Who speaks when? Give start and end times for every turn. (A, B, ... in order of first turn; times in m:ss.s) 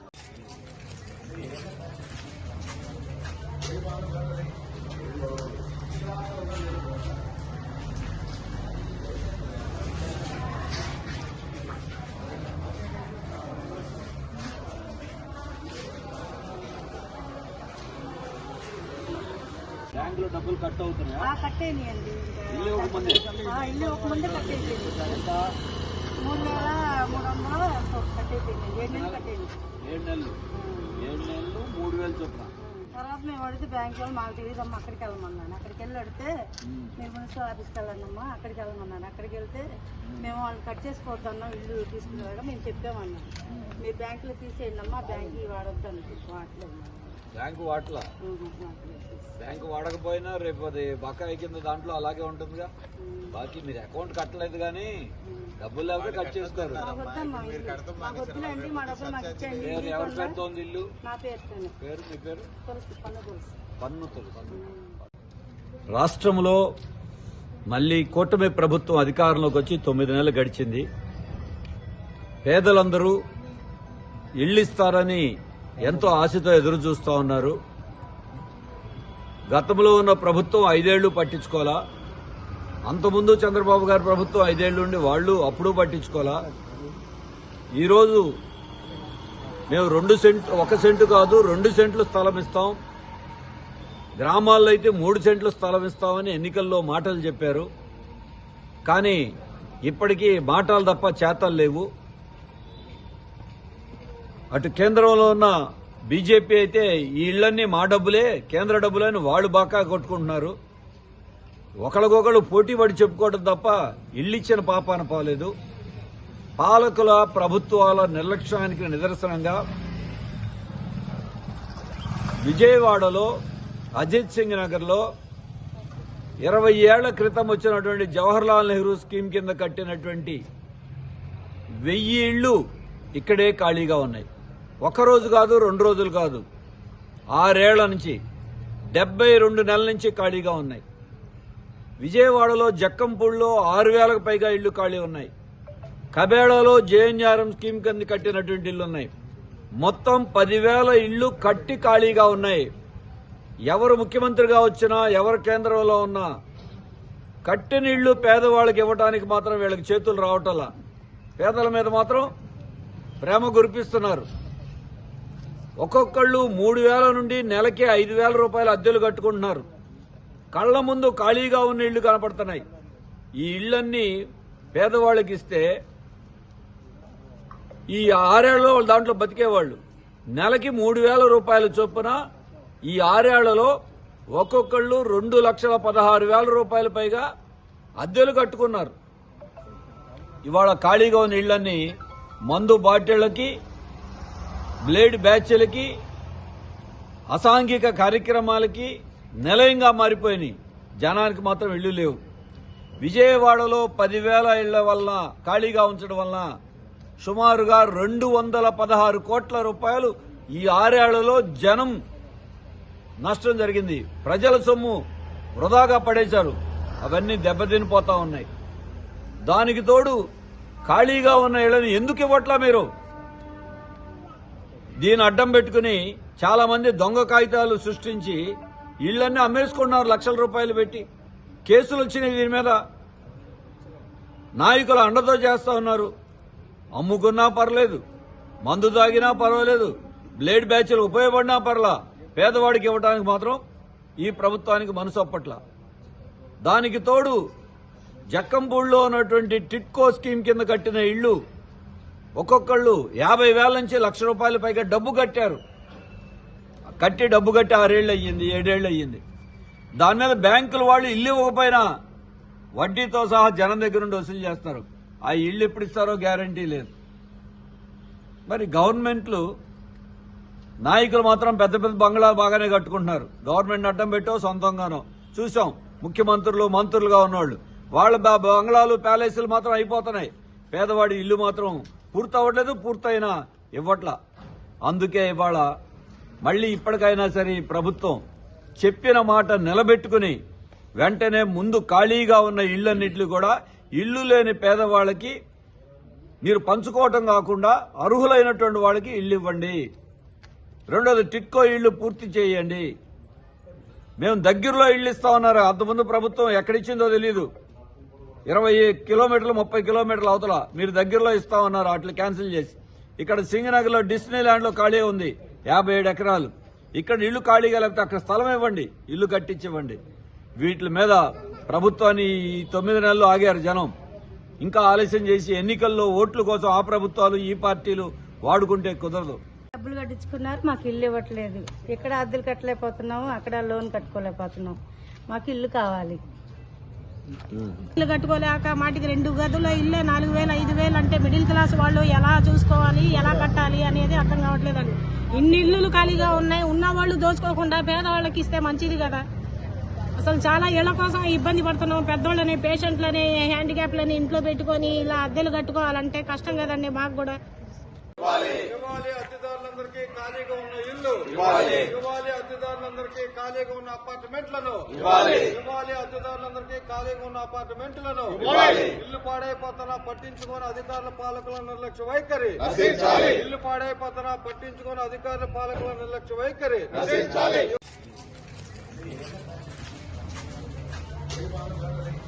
0:20.0-0:21.3 A
0:21.2-0:25.2 B
0:22.5-0:25.5 A
0:26.2-0:29.5 B
0:28.8-0:29.2 A
0:29.9-0:30.4 A
0:30.5-0:31.0 B
0:31.0-0:32.5 A
0:32.6-0:36.3 B
0:36.7-0:36.9 A
0:37.0-0:39.6 B
0:40.2-0:47.2 B
0:43.5-0:43.8 A
0:47.4-0:48.1 A
0:48.2-0:49.3 B
0:49.4-0:52.7 A
0:53.0-0:53.4 B
0:53.3-0:56.9 A
0:55.2-0:55.5 B
0:56.3-0:57.3 C
0:56.7-1:00.4 B
0:59.6-1:00.9 A
1:01.0-1:01.8 B
1:01.8-1:02.5 A
1:02.6-1:03.6 B
1:03.8-1:04.6 A
1:04.5-1:05.0 B
1:05.9-1:06.6 A
1:07.7-1:10.9 A
1:12.4-1:13.2 A
1:14.4-1:15.3 A
1:15.8-1:17.6 A
1:19.5-1:21.8 A
1:22.9-1:26.5 A
1:27.8-1:28.3 A
1:29.7-1:32.8 A
1:34.2-1:37.7 A
1:38.9-1:39.2 A
1:39.8-1:41.9 A
1:44.5-1:45.6 A
1:46.1-1:50.6 A
1:51.8-1:55.5 A
1:56.6-1:59.6 A
2:02.4-2:03.3 A
2:04.0-2:05.1 A
2:06.4-2:10.4 A
2:11.8-2:12.6 A
2:13.2-2:14.3 A
2:14.8-2:16.4 A
2:17.3-2:18.2 A
2:18.9-2:20.8 A
2:22.0-2:25.3 A
2:26.1-2:29.1 A
2:29.8-2:32.7 A
2:33.7-2:36.3 A
2:37.4-2:40.7 A
2:41.4-2:42.3 A
2:43.2-2:44.3 A
2:45.8-2:49.6 A
2:50.5-2:52.6 A
2:53.4-2:54.1 A
2:54.7-2:55.7 A
2:57.9-2:59.8 A
3:00.4-3:02.2 A
3:02.8-3:03.7 A
3:04.3-3:07.3 A
3:08.0-3:08.9 A
3:10.4-3:11.8 A
3:12.5-3:13.5 A
3:14.8-3:15.9 A
3:17.3-3:22.2 A
3:23.0-3:26.5 A
3:27.2-3:32.0 A
3:33.2-3:35.0 A
3:35.6-3:38.5 A
3:39.5-3:40.2 A
3:40.9-3:42.9 A
3:45.0-3:48.4 A
3:49.0-3:51.0 A
3:51.7-3:52.8 A
3:54.6-3:56.1 A
3:57.0-3:58.0 A
3:58.7-4:03.6 A
4:04.2-4:05.6 A
4:06.6-4:07.4 A
4:08.3-4:11.4 A
4:12.4-4:15.6 A
4:17.0-4:19.2 A
4:20.0-4:21.9 A
4:22.8-4:26.9 A
4:28.5-4:29.5 A
4:30.8-4:44.2 A
4:44.8-4:45.7 A
4:46.4-4:48.2 A
4:48.8-4:50.4 A
4:51.0-4:55.4 A
4:56.4-4:59.8 A
5:00.9-5:02.9 A
5:04.2-5:07.5 A
5:08.5-5:20.0 A
5:20.6-5:23.9 A
5:24.6-5:29.4 A
5:29.7-5:36.2 B
5:37.5-5:37.9 A
5:38.0-5:49.2 D
5:50.2-5:57.4 D
5:58.5-6:17.6 C
6:01.4-6:01.7 A
6:12.9-6:13.3 A